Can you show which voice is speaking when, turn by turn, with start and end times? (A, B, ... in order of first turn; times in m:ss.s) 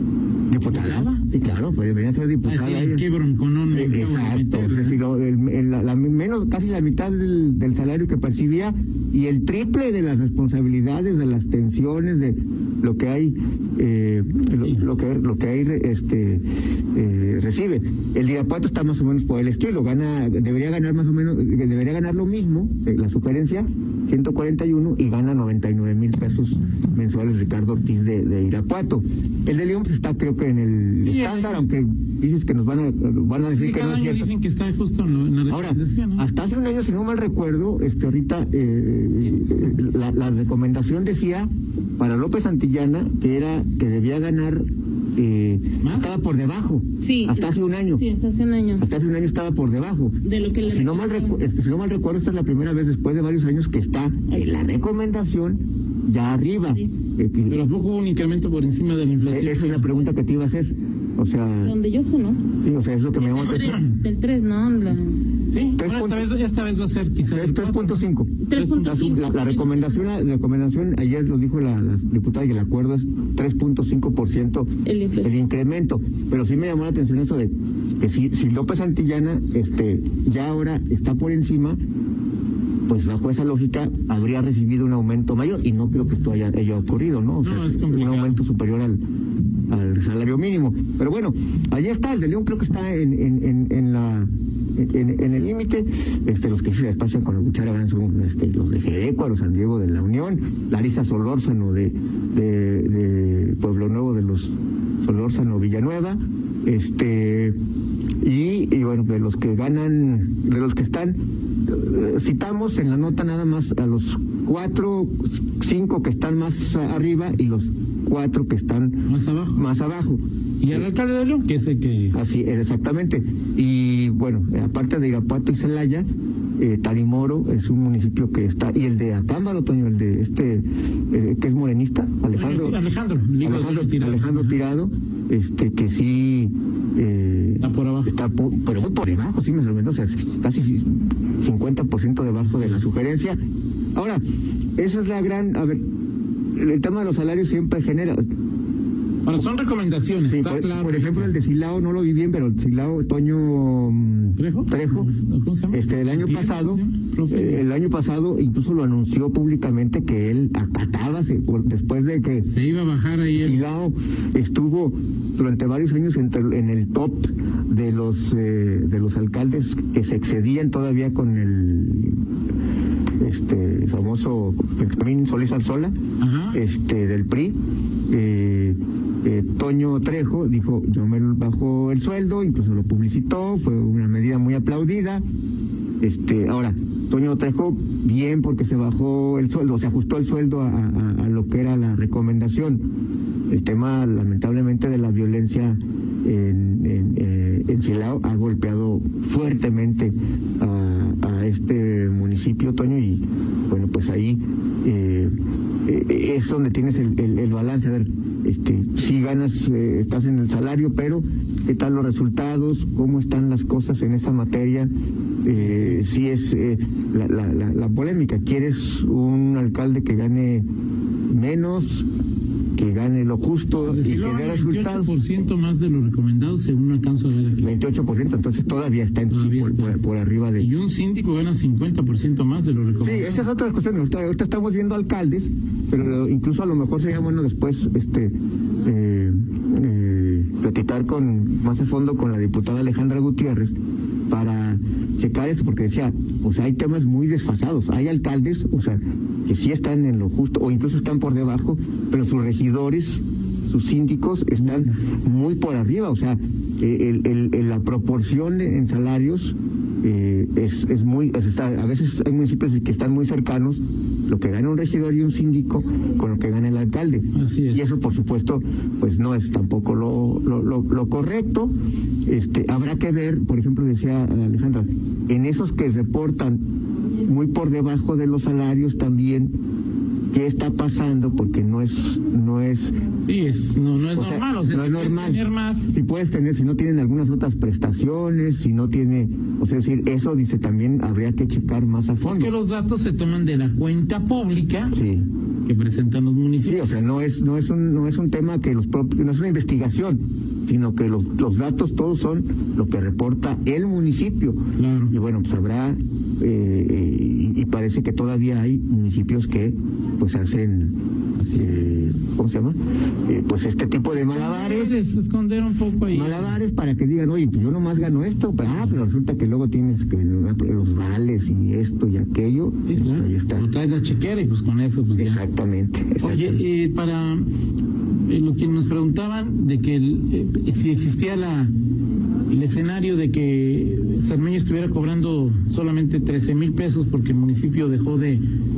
0:00.5-0:03.0 A
0:00.7-0:01.2 B
0:02.4-0:05.0 B
0:03.7-0:34.3 A
0:14.6-0:14.9 B
0:31.0-0:31.6 B
0:33.5-0:36.3 B
0:35.5-0:48.0 A
0:45.8-0:46.1 B
0:47.0-0:48.9 C
0:48.8-0:57.6 A
0:50.2-0:51.4 C
0:54.3-0:54.6 C
0:56.7-0:56.9 C
0:57.4-1:00.0 B
0:59.2-1:01.8 A
1:01.6-1:02.4 C
1:02.6-1:03.8 A
1:03.2-1:05.2 C
1:05.5-1:09.1 B
1:05.8-1:06.3 A
1:07.3-1:14.7 A
1:08.4-1:10.0 C
1:14.9-1:15.4 C
1:15.2-1:21.8 A
1:22.9-1:29.0 A
1:27.4-1:28.4 B
1:29.7-1:47.6 A
1:48.2-1:59.0 A
1:59.1-1:59.7 B
1:59.5-2:00.9 A
2:00.6-2:02.2 B
2:02.1-2:06.1 A
2:06.6-2:12.8 A
2:12.3-2:14.6 B
2:13.4-2:23.4 A
2:17.6-2:18.2 B
2:22.5-2:22.9 B
2:24.0-2:24.2 A
2:24.8-2:25.8 A
2:26.6-2:28.2 A
2:29.2-2:31.4 B
2:30.2-2:35.1 A
2:34.4-2:37.6 B
2:35.7-2:42.5 A
2:42.5-2:43.6 B
2:43.3-2:52.2 A
2:53.2-2:55.9 A
2:56.2-2:56.6 B
2:56.5-2:57.6 A
2:58.1-3:05.2 A
3:06.0-3:12.8 A
3:13.5-3:25.3 A
3:25.9-3:34.9 A
3:35.4-3:40.6 A
3:35.6-3:36.0 B
3:41.3-3:42.1 A
3:42.8-3:45.2 A
3:43.8-3:47.7 B
3:47.6-3:50.7 A
3:49.3-3:50.0 B
3:50.6-3:53.5 B
3:53.0-4:03.7 A
4:04.3-4:31.7 A
4:27.3-4:27.9 B
4:32.3-4:36.6 A
4:37.2-4:39.5 A
4:40.3-4:43.0 A
4:43.2-4:45.9 B
4:44.1-4:52.6 A
4:52.2-4:55.0 B
4:54.9-4:55.2 A
4:55.7-4:57.0 B
4:56.6-5:10.9 A
5:04.8-5:05.2 B
5:11.4-5:12.0 B
5:11.5-5:15.1 A
5:14.1-5:16.6 B
5:16.0-5:23.7 A
5:18.7-5:19.0 B
5:22.8-5:25.4 B
5:25.2-5:26.6 A
5:26.2-5:27.5 B
5:28.3-5:31.7 B
5:32.5-5:38.4 B